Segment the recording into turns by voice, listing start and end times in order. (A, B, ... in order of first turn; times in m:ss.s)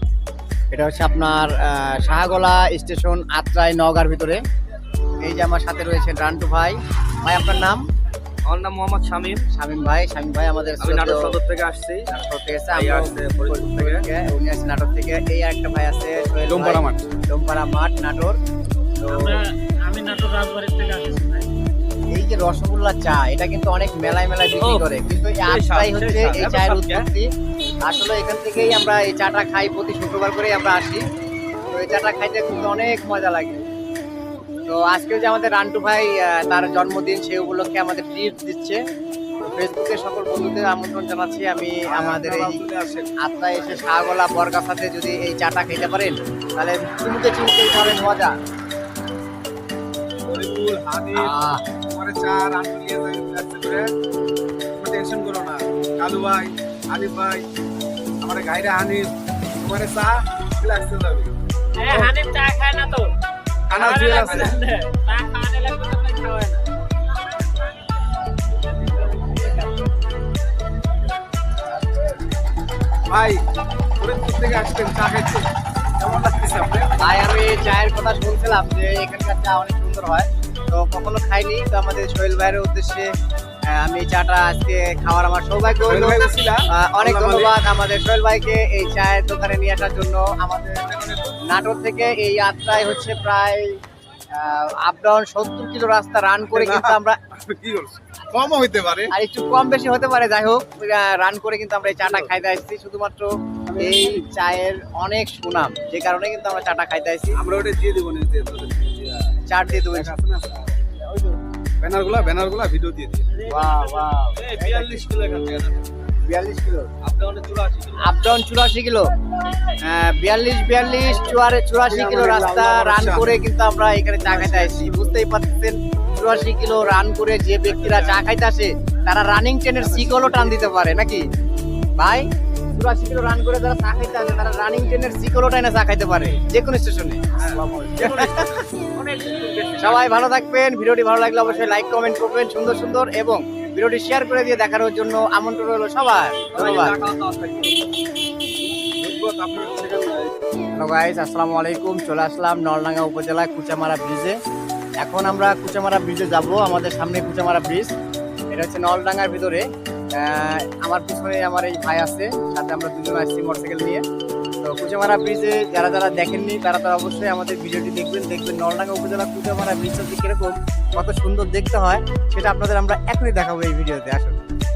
0:00.7-0:04.4 A
0:05.2-0:07.8 A
0:08.4-0:09.4 B
0:09.5-0:11.3 A
0:10.8-0:12.1 B
0:12.1-0:18.4 A
0:12.7-0:14.0 B
0:16.5-0:17.0 C
0:19.0-0:19.4 A
0:19.1-0:21.5 D
0:22.1-0:27.3 A
0:24.6-0:24.9 B
0:25.4-0:27.1 B
0:27.8-0:31.0 A
0:31.7-0:33.6 A
0:34.7-0:38.8 A
0:39.4-0:42.6 A
0:41.9-0:43.1 C
0:43.2-0:48.3 A
0:50.2-0:51.3 C
0:51.1-0:51.6 A
0:51.9-0:53.9 C
0:54.7-0:57.4 C
0:58.2-1:01.3 C
1:01.8-1:03.1 D
1:01.9-1:02.1 C
1:03.7-1:04.6 C
1:03.7-1:06.6 D
1:08.8-1:09.7 D
1:13.1-1:13.4 C
1:14.0-1:15.5 C
1:16.0-1:17.0 C
1:17.0-1:23.1 A
1:23.7-1:30.9 A
1:25.8-1:27.6 C
1:31.4-1:33.8 A
1:34.3-1:37.2 A
1:36.5-1:39.1 C
1:39.1-1:47.4 A
1:42.0-1:42.3 C
1:43.7-1:44.2 C
1:47.4-1:50.7 C
1:49.5-1:50.1 A
1:51.0-1:51.4 A
1:51.8-1:53.3 C
1:53.3-1:54.1 D
1:53.5-1:55.1 A
1:54.4-1:55.8 B
1:56.3-1:56.9 A
1:57.0-1:58.1 B
1:58.0-1:59.1 A
1:59.8-2:11.2 A
2:01.8-2:03.4 C
2:04.2-2:05.2 C
2:07.7-2:08.2 C
2:09.8-2:10.6 C
2:12.0-2:17.2 A
2:17.4-2:18.3 B
2:17.4-2:18.2 C
2:18.0-2:18.6 A
2:18.9-2:20.0 B
2:19.8-2:27.0 A
2:26.5-2:27.8 B
2:29.0-2:30.3 C
2:30.8-2:34.4 A
2:35.0-2:37.9 A
2:38.5-2:44.0 A
2:44.6-2:54.4 A